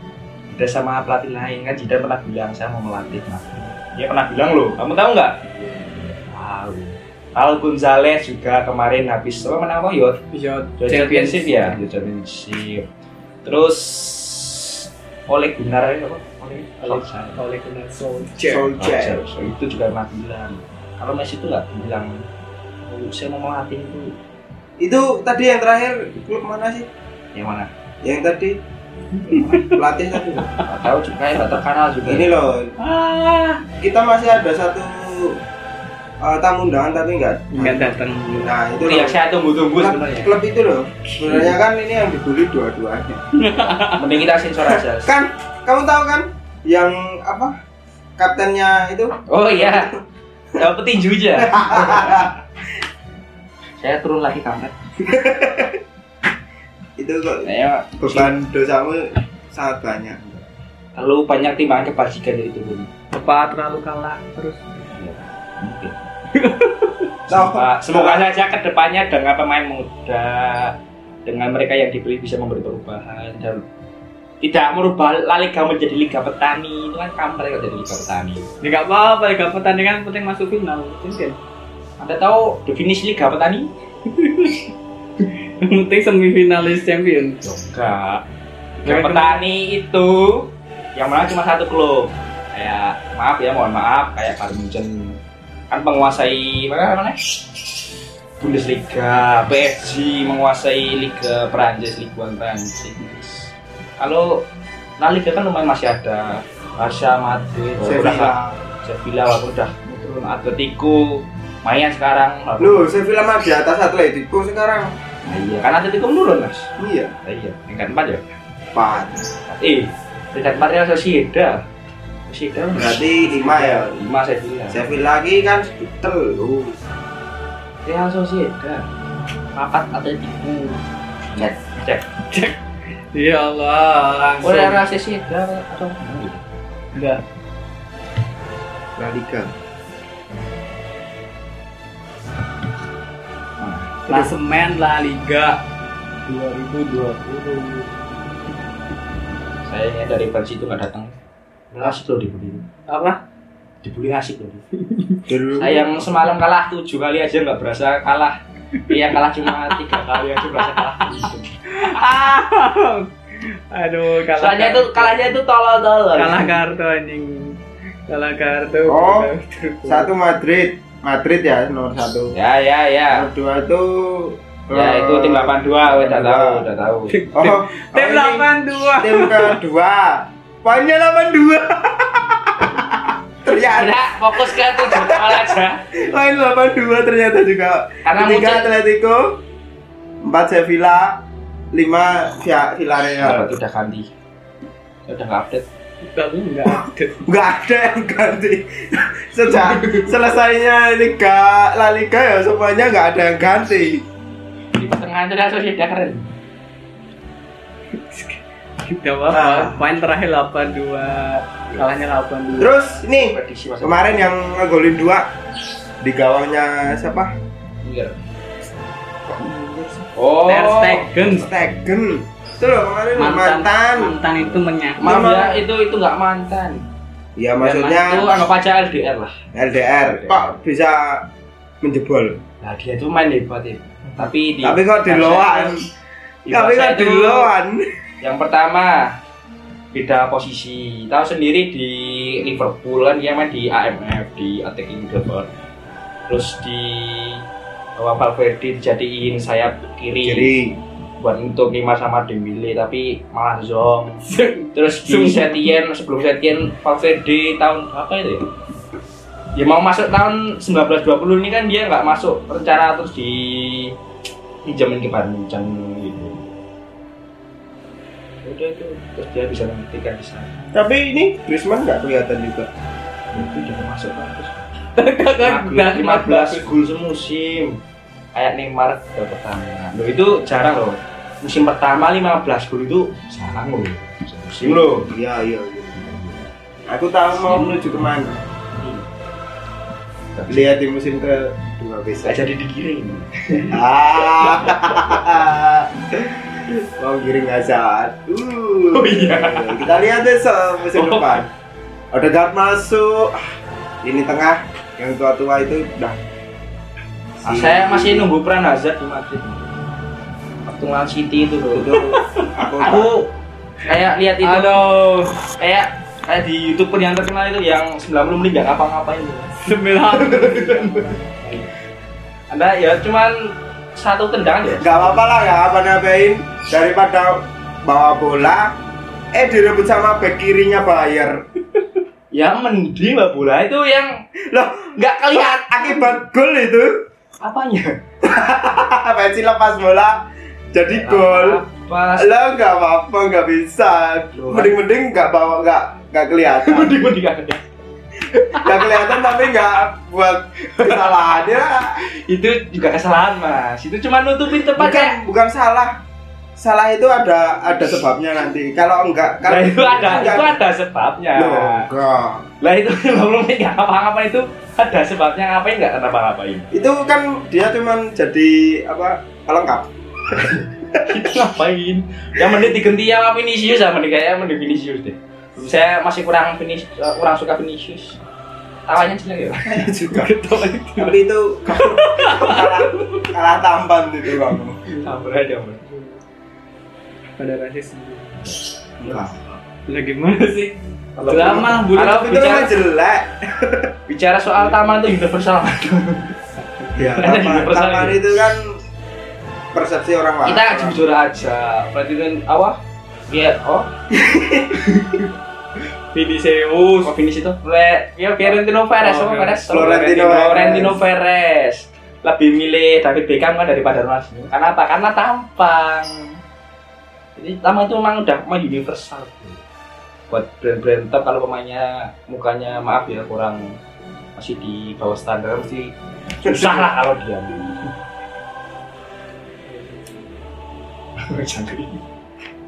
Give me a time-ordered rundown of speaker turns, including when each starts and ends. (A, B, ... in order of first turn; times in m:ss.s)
0:00.5-0:10.2 A
0:10.3-0:11.8 B
0:10.8-0:12.9 A
0:13.4-0:17.4 A
0:16.8-0:18.7 B
0:18.4-0:19.2 C
0:18.8-0:22.3 A
0:22.9-0:24.1 A
0:24.8-0:26.9 C
0:27.3-0:27.7 A
0:28.0-0:28.6 C
0:29.2-0:29.8 B
0:29.3-0:29.8 A
0:29.3-0:30.6 C
0:30.6-0:32.6 A
0:32.0-0:32.8 C
0:32.8-0:33.6 B
0:33.8-0:35.4 C
0:36.2-0:39.2 C
0:37.5-0:38.6 B
0:38.8-0:40.4 A
0:39.7-0:43.7 C
0:41.2-0:41.5 A
0:43.3-0:44.2 B
0:44.0-0:45.1 A
0:44.6-0:47.6 C
0:48.2-0:49.9 C
0:49.3-0:49.9 A
0:50.6-0:52.4 A
0:51.4-0:52.3 C
0:53.8-0:54.8 A
0:55.0-0:55.8 C
0:57.0-0:57.5 C
0:57.4-0:58.3 A
0:58.0-1:00.2 C
1:00.2-1:02.9 A
1:03.1-1:04.6 B
1:04.9-1:06.0 A
1:06.3-1:07.1 B
1:07.3-1:13.6 A
1:07.3-1:08.3 C
1:14.4-1:18.5 A
1:18.6-1:21.4 B
1:22.0-1:23.7 A
1:24.1-1:24.7 B
1:25.2-1:27.4 B
1:27.4-1:28.2 A
1:28.8-1:29.4 B
1:28.8-1:35.2 A
1:35.7-1:37.5 A
1:38.4-1:44.4 A
1:45.0-1:52.9 A
1:47.8-1:48.6 C
1:52.6-1:54.9 C
1:55.2-1:56.7 A
1:56.8-1:57.1 C
1:57.2-1:58.2 A
1:58.7-1:59.3 C
1:59.5-2:01.6 A
2:02.3-2:04.8 A
2:02.7-2:03.9 C
2:04.7-2:06.8 C
2:07.8-2:08.8 A
2:09.5-2:10.8 A
2:11.3-2:12.1 A
2:12.3-2:12.6 B
2:13.1-2:14.8 B
2:14.4-2:16.5 A
2:17.0-2:17.2 B
2:19.0-2:19.5 C
2:23.6-2:24.0 A
2:24.1-2:25.6 B
2:26.3-2:27.9 B
2:29.6-2:31.2 A
2:31.7-2:32.6 A
2:32.9-2:33.2 B
2:33.8-2:34.6 A
2:34.8-2:35.2 B
2:35.3-2:36.3 C
2:35.6-2:42.2 A
2:39.5-2:39.9 B
2:41.7-2:45.2 B
2:44.2-2:46.6 A
2:46.2-2:50.1 B
2:48.9-2:49.3 C
2:49.9-2:52.3 C
2:52.3-2:53.3 A
2:53.1-2:56.6 C
2:54.7-2:57.1 A
2:57.1-2:59.6 B
2:57.3-3:09.4 C
3:03.7-3:05.8 A
3:08.0-3:08.7 A
3:10.2-3:13.5 C
3:13.2-3:14.1 A
3:15.1-3:15.6 A
3:16.0-3:17.2 B
3:17.2-3:24.1 C
3:24.8-3:26.3 A
3:28.0-3:32.8 B
3:29.3-3:29.9 C
3:32.6-3:35.3 C
3:33.0-3:34.3 A
3:36.0-3:37.3 C
3:37.8-3:38.2 A
3:39.3-3:40.1 C
3:40.2-3:41.8 A
3:40.4-3:41.5 B
3:41.4-3:44.2 C
3:43.2-3:45.3 B
3:45.0-3:46.9 A
3:45.0-3:45.6 C
3:47.4-3:48.4 C
3:47.6-3:49.4 A
3:49.5-3:51.3 C
3:50.1-3:50.6 A
3:51.8-3:52.4 C
3:52.6-3:55.8 A
3:54.2-3:55.8 C
3:56.5-3:57.5 A
3:56.5-3:57.9 C
3:58.2-3:59.2 A
3:59.9-4:05.5 A
4:06.3-4:07.4 A
4:08.0-4:10.5 A
4:10.2-4:10.8 C
4:11.2-4:18.5 A
4:14.2-4:15.7 B
4:19.6-4:24.0 A
4:24.6-4:26.6 A
4:28.4-4:30.8 A
4:30.7-4:32.7 C
4:33.3-4:34.7 A
4:35.0-4:36.7 B
4:35.3-4:37.8 A
4:38.3-4:45.1 A
4:44.6-4:46.2 C
4:46.0-4:46.5 A
4:46.9-4:48.4 C
4:47.3-4:47.8 A
4:48.7-4:49.1 A
4:50.4-4:50.7 A
4:50.5-4:52.4 C
4:52.2-4:55.3 A
4:53.7-5:01.5 C
4:58.9-4:59.9 A
5:00.9-5:01.5 A
5:02.1-5:03.4 C
5:04.0-5:06.2 C
5:07.4-5:08.3 C
5:07.4-5:09.7 A
5:10.7-5:12.0 A
5:11.7-5:13.2 C
5:12.1-5:12.4 B
5:12.8-5:13.3 A
5:13.8-5:14.9 A
5:14.4-5:15.4 B
5:15.6-5:21.1 A
5:19.6-5:21.7 B
5:22.5-5:25.3 A
5:24.8-5:28.8 C
5:29.3-5:31.4 C
5:32.3-5:34.2 A
5:34.5-5:36.9 C
5:35.0-5:36.2 A
5:37.4-5:38.0 A
5:38.2-5:41.6 C
5:40.9-5:42.3 A
5:42.1-5:47.0 C
5:44.4-5:44.8 A
5:46.6-5:47.7 A
5:48.4-5:49.8 A
5:48.5-5:52.0 C
5:50.8-5:51.4 A
5:52.0-5:55.2 A
5:54.7-5:56.0 C
5:56.6-6:00.6 C
5:59.4-6:01.9 A
6:01.4-6:02.5 C
6:02.6-6:06.7 A
6:06.7-6:11.2 C
6:11.0-6:18.2 A
6:18.9-6:19.8 A
6:19.7-6:20.3 C
6:20.1-6:23.0 B
6:21.0-6:24.8 C
6:25.0-6:25.8 A
6:25.8-6:26.2 B
6:27.4-6:28.5 B
6:28.4-6:29.2 A
6:29.0-6:29.4 C
6:29.9-6:32.5 B
6:31.2-6:32.7 A
6:31.3-6:33.9 C
6:34.1-6:36.3 A
6:36.6-6:37.1 B
6:37.0-6:38.8 C
6:37.0-6:38.4 A
6:39.7-6:41.0 C
6:40.4-6:43.9 A
6:44.1-6:44.8 C
6:46.1-6:47.1 B
6:47.0-6:56.4 A
6:48.4-6:49.7 B
6:49.7-6:51.0 C
6:57.4-6:59.6 A
7:00.3-7:03.8 A
7:04.4-7:07.9 A
7:09.6-7:10.3 B
7:11.2-7:12.0 A